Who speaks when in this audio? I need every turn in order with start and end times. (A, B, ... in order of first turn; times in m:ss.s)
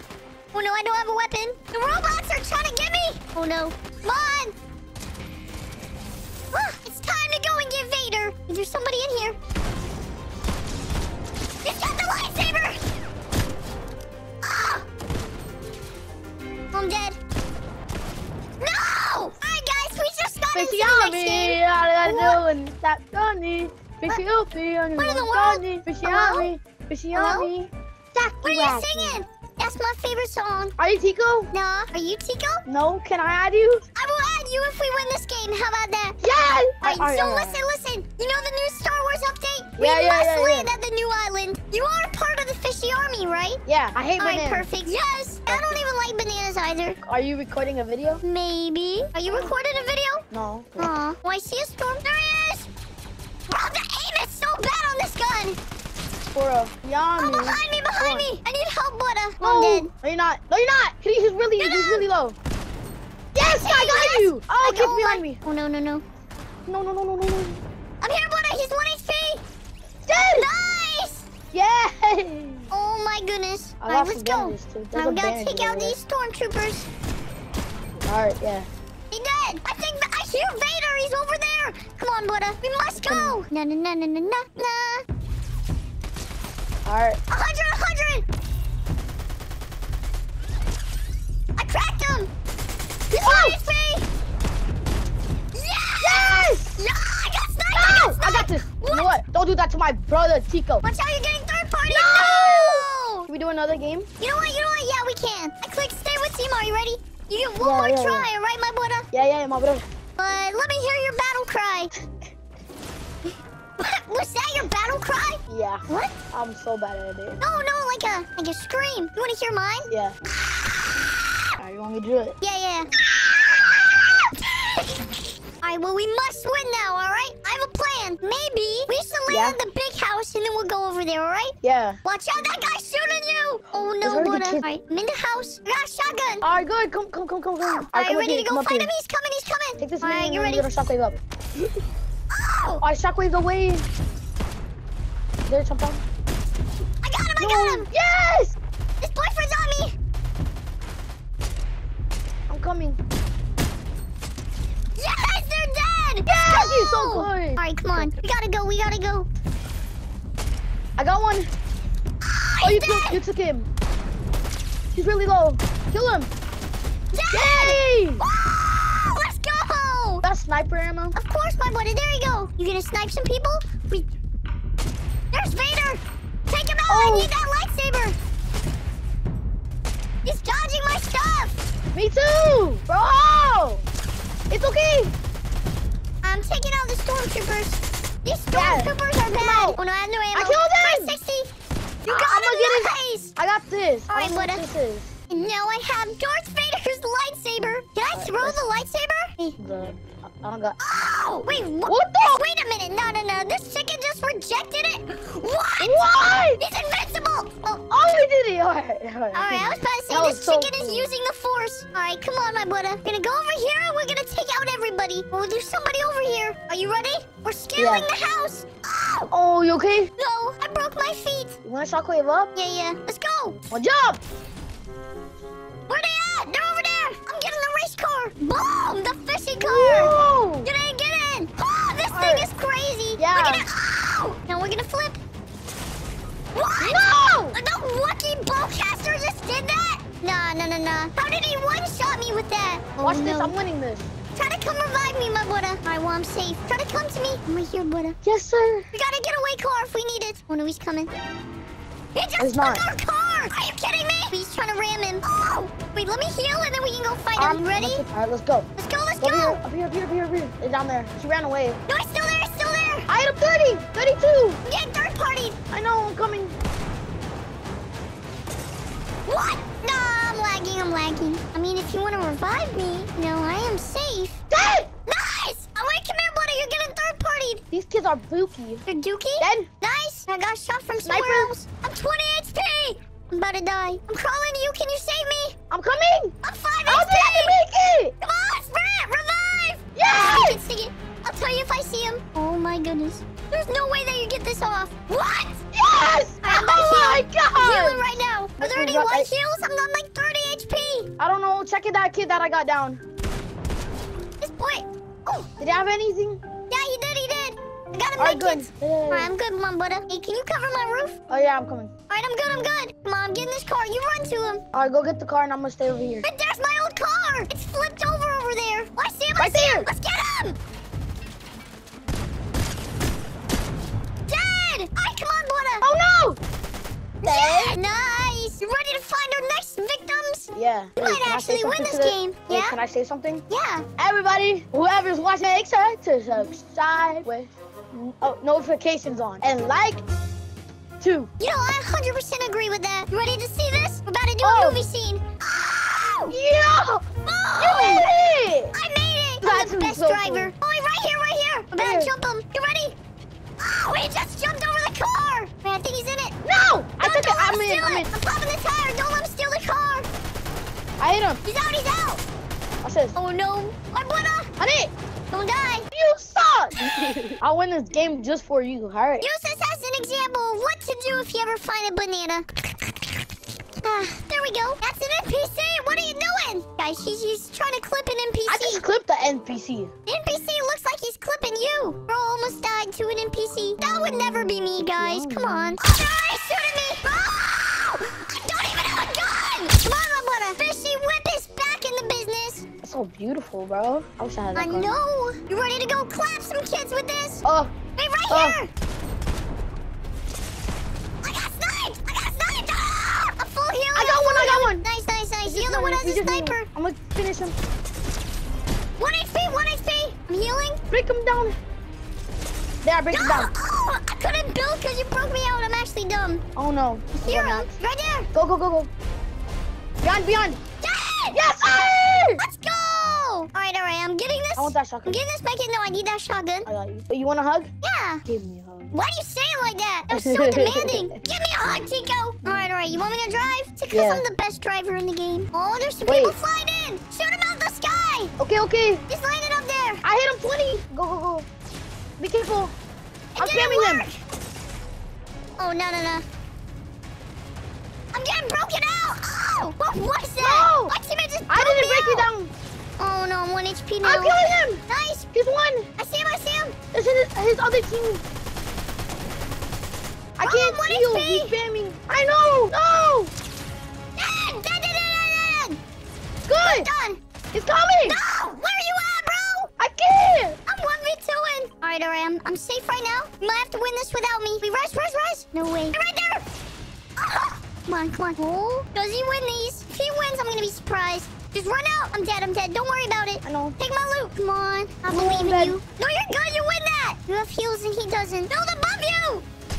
0:00.5-0:04.6 A
0:06.5-0:09.4 A
0:11.6-0:12.8 A
0:14.4-0:14.8 A
0:16.7-0:17.2 A
0:18.6-0:22.4 A
0:20.5-0:29.2 B
0:25.0-0:26.5 A
0:27.1-0:27.5 A
0:28.2-0:30.8 A
0:30.8-0:31.5 B
0:31.5-0:32.6 A
0:32.7-0:33.8 B
0:34.0-0:36.2 A
0:36.2-0:37.7 B
0:36.8-0:43.6 A
0:39.8-0:40.7 B
0:43.7-0:44.7 B
0:44.2-0:47.0 A
0:45.5-0:45.8 B
0:47.0-0:48.2 B
0:48.2-0:50.2 A
0:50.3-0:50.9 B
0:50.8-0:52.7 A
0:53.5-0:55.6 A
0:56.3-0:58.3 B
0:57.2-0:59.9 A
0:59.4-1:02.4 B
1:01.6-1:02.1 A
1:03.4-1:05.4 B
1:03.5-1:06.0 A
1:06.7-1:07.6 B
1:08.0-1:09.4 A
1:10.1-1:10.5 B
1:10.3-1:11.2 A
1:11.5-1:12.7 B
1:12.7-1:16.9 A
1:13.8-1:16.0 B
1:18.1-1:18.7 B
1:19.1-1:25.0 A
1:23.0-1:23.4 B
1:26.9-1:27.2 B
1:27.3-1:28.2 A
1:31.6-1:32.3 A
1:33.1-1:34.1 A
1:33.1-1:33.6 B
1:35.5-1:39.2 A
1:36.0-1:36.8 B
1:37.7-1:40.8 B
1:40.8-1:43.3 A
1:41.9-1:44.1 B
1:44.2-1:49.1 A
1:47.6-1:48.3 B
1:49.1-1:49.8 B
1:50.2-1:51.9 A
1:53.8-1:56.1 A
1:55.5-1:57.4 B
1:57.4-1:59.9 A
1:59.9-2:00.2 B
2:01.6-2:02.4 B
2:02.4-2:02.9 A
2:04.2-2:04.9 A
2:05.6-2:16.4 A
2:09.3-2:09.6 B
2:11.6-2:12.0 B
2:14.0-2:14.7 B
2:16.4-2:18.9 B
2:17.6-2:20.8 A
2:19.8-2:21.2 B
2:22.3-2:22.8 A
2:22.8-2:23.9 B
2:25.5-2:26.0 B
2:27.0-2:27.9 A
2:27.4-2:28.6 B
2:29.0-2:29.9 A
2:32.5-2:33.0 B
2:35.0-2:39.3 A
2:36.3-2:38.1 B
2:41.0-2:41.5 B
2:42.2-2:43.2 A
2:42.6-2:43.7 B
2:45.0-2:46.3 B
2:47.1-2:50.3 A
2:47.3-2:48.2 B
2:50.2-2:51.2 B
2:51.1-2:54.1 A
2:55.3-2:58.2 A
2:56.9-2:57.3 B
3:00.2-3:01.6 A
3:01.9-3:03.9 B
3:04.5-3:05.1 B
3:06.2-3:11.5 A
3:08.5-3:09.8 B
3:10.3-3:11.2 B
3:12.0-3:13.3 A
3:12.1-3:15.1 B
3:14.1-3:14.6 A
3:15.3-3:19.6 A
3:18.1-3:18.6 B
3:19.6-3:20.8 B
3:20.8-3:26.0 A
3:21.9-3:22.4 B
3:25.8-3:26.6 B
3:26.6-3:27.8 A
3:27.9-3:31.1 B
3:29.3-3:39.3 A
3:37.8-3:38.1 B
3:39.3-3:40.1 B
3:40.2-3:41.6 A
3:41.6-3:42.5 B
3:42.6-3:43.6 A
3:43.7-3:44.2 B
3:45.9-3:55.2 A
3:49.6-3:50.7 B
3:52.1-3:52.5 B
3:53.2-3:53.7 B
3:56.5-4:03.5 A
3:56.8-3:57.6 B
4:03.0-4:04.1 B
4:04.4-4:08.2 A
4:08.2-4:08.9 B
4:08.9-4:11.1 A
4:12.2-4:18.0 A
4:12.4-4:12.9 B
4:17.4-4:18.7 B
4:18.8-4:19.6 A
4:19.2-4:21.8 B
4:21.9-4:23.1 A
4:23.1-4:24.6 B
4:24.6-4:25.6 A
4:25.7-4:26.6 B
4:29.3-4:34.4 A
4:34.5-4:34.9 B
4:35.1-4:37.6 A
4:37.7-4:38.8 B
4:38.9-4:45.6 A
4:39.4-4:39.7 B
4:41.0-4:41.5 B
4:45.7-4:46.3 B
4:46.4-4:47.6 A
4:46.9-4:48.2 B
4:48.2-4:55.6 A
4:50.0-4:50.6 B
4:55.7-4:59.3 B
4:56.4-5:01.1 A
5:01.2-5:03.0 B
5:04.4-5:05.5 A
5:05.6-5:06.4 B
5:06.7-5:11.2 A
5:08.2-5:09.3 B
5:11.3-5:11.9 B
5:12.1-5:14.6 A
5:14.7-5:16.3 B
5:16.2-5:20.6 A
5:19.4-5:19.9 B
5:24.3-5:25.9 A
5:25.8-5:26.4 B
5:27.2-5:27.8 B
5:27.2-5:32.8 A
5:30.5-5:33.4 B
5:33.5-5:33.8 A
5:34.0-5:40.0 B
5:41.0-5:41.3 B
5:41.4-5:46.4 A
5:44.4-5:44.8 B
5:46.3-5:47.1 B
5:47.3-5:48.1 A
5:47.6-5:48.8 B
5:48.7-5:53.0 A
5:49.4-5:50.5 B
5:51.8-5:52.1 B
5:53.6-5:56.4 A
5:56.4-5:58.1 B
5:57.0-6:00.1 A
6:01.0-6:01.4 B
6:01.4-6:02.2 A
6:02.8-6:03.2 B
6:03.2-6:04.5 A
6:04.6-6:04.9 B
6:05.3-6:05.9 A
6:05.9-6:09.3 B
6:09.2-6:12.5 A
6:13.8-6:18.8 A
6:18.5-6:19.9 B
6:20.1-6:32.7 A
6:24.8-6:25.8 B
6:32.8-6:35.0 B
6:34.6-6:37.4 A
6:37.4-6:37.7 B
6:38.0-6:38.7 A
6:38.3-6:38.6 B
6:41.2-6:46.7 A
6:44.0-6:44.8 B
6:45.4-6:47.6 B
6:49.0-6:50.8 A
6:50.9-6:51.6 B
6:52.8-6:53.5 B
6:53.1-6:56.4 A
6:56.6-6:57.7 B
6:57.1-6:58.3 A
6:58.3-6:58.9 B
7:00.0-7:00.6 B
7:00.8-7:01.4 A
7:01.3-7:02.4 B
7:02.4-7:06.7 A
7:04.6-7:05.2 B
7:06.7-7:07.7 B
7:07.8-7:08.2 A
7:08.3-7:08.9 B
7:08.9-7:18.3 A
7:10.1-7:11.1 B
7:13.9-7:14.2 B
7:16.1-7:16.4 B
7:18.4-7:19.0 B
7:19.1-7:20.0 A
7:20.0-7:21.5 B
7:22.2-7:22.7 B
7:23.4-7:24.2 A
7:23.4-7:24.1 B
7:25.6-7:26.2 A
7:28.1-7:32.3 A
7:30.4-7:30.9 B
7:31.5-7:32.5 B
7:33.0-7:35.3 A
7:34.0-7:34.8 B
7:35.4-7:35.9 B
7:36.0-7:36.8 A
7:36.9-7:38.2 B
7:40.4-7:43.3 B
7:40.4-7:41.6 A
7:44.2-7:45.8 A
7:46.5-7:46.9 B
7:46.6-7:47.2 A
7:47.5-7:48.2 B
7:48.0-7:49.7 A
7:49.8-7:50.6 B
7:50.7-7:56.4 A
7:57.2-8:09.5 A
8:03.4-8:03.8 B
8:05.1-8:05.8 B